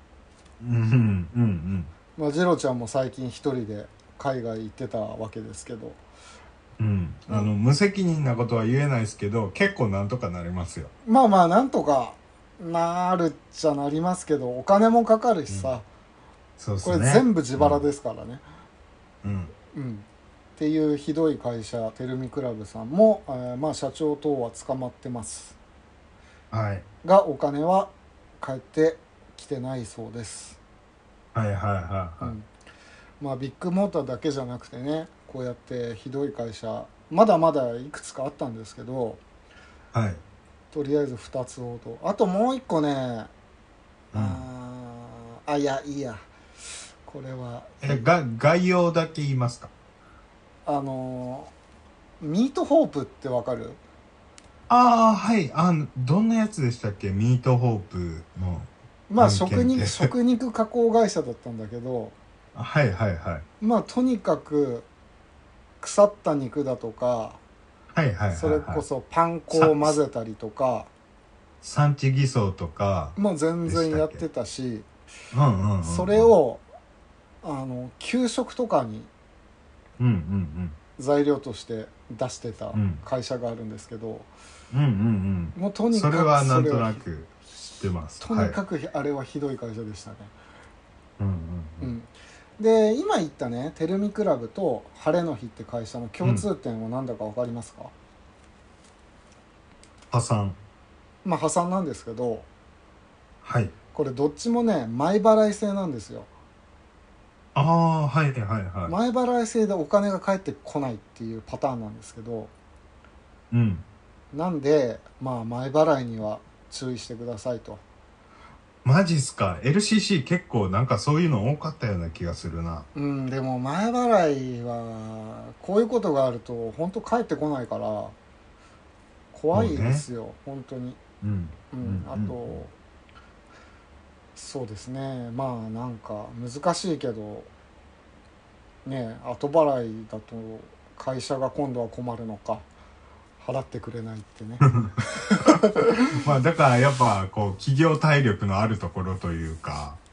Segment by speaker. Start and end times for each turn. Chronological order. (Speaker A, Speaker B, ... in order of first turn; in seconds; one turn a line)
Speaker A: 0.6-1.9
Speaker B: 2.2-6.0
Speaker A: 6.8-10.9
Speaker B: 11.1-15.9
Speaker A: 16.6-17.9
Speaker B: 16.8-18.4
Speaker A: 19.2-19.5
Speaker B: 19.7-25.6
Speaker A: 26.5-26.9
Speaker B: 27.0-30.6
Speaker A: 31.3-32.3
Speaker B: 32.2-32.5
Speaker B: 33.2-39.2
Speaker A: 39.9-40.2
Speaker B: 40.7-43.3
Speaker A: 44.1-44.4
Speaker B: 44.1-46.2
Speaker B: 47.1-48.1
Speaker A: 47.8-49.7
Speaker B: 50.7-51.5
Speaker B: 52.2-53.8
Speaker A: 54.7-60.1
Speaker B: 59.1-62.2
Speaker A: 62.5-63.5
Speaker B: 63.6-64.9
Speaker B: 65.8-67.4
Speaker A: 67.9-68.8
Speaker B: 68.3-70.9
Speaker A: 69.5-70.0
Speaker A: 71.6-74.2
Speaker B: 73.2-74.9
Speaker A: 75.3-76.3
Speaker B: 75.8-76.6
Speaker B: 77.4-79.1
Speaker A: 80.0-80.8
Speaker B: 81.0-84.3
Speaker A: 82.7-83.0
Speaker A: 84.7-88.6
Speaker B: 85.5-87.0
Speaker B: 88.2-90.3
Speaker A: 91.2-91.9
Speaker B: 91.8-97.9
Speaker A: 100.1-100.6
Speaker B: 101.2-102.5
Speaker A: 103.4-103.7
Speaker B: 103.9-106.3
Speaker A: 107.5-109.0
Speaker B: 108.9-112.5
Speaker A: 113.5-113.8
Speaker B: 114.3-117.8
Speaker A: 118.8-122.9
Speaker B: 123.0-128.2
Speaker B: 129.3-131.0
Speaker A: 129.5-130.1
Speaker A: 131.2-132.6
Speaker B: 131.7-132.7
Speaker B: 134.3-137.5
Speaker B: 138.8-142.7
Speaker B: 143.4-146.1
Speaker A: 146.1-150.0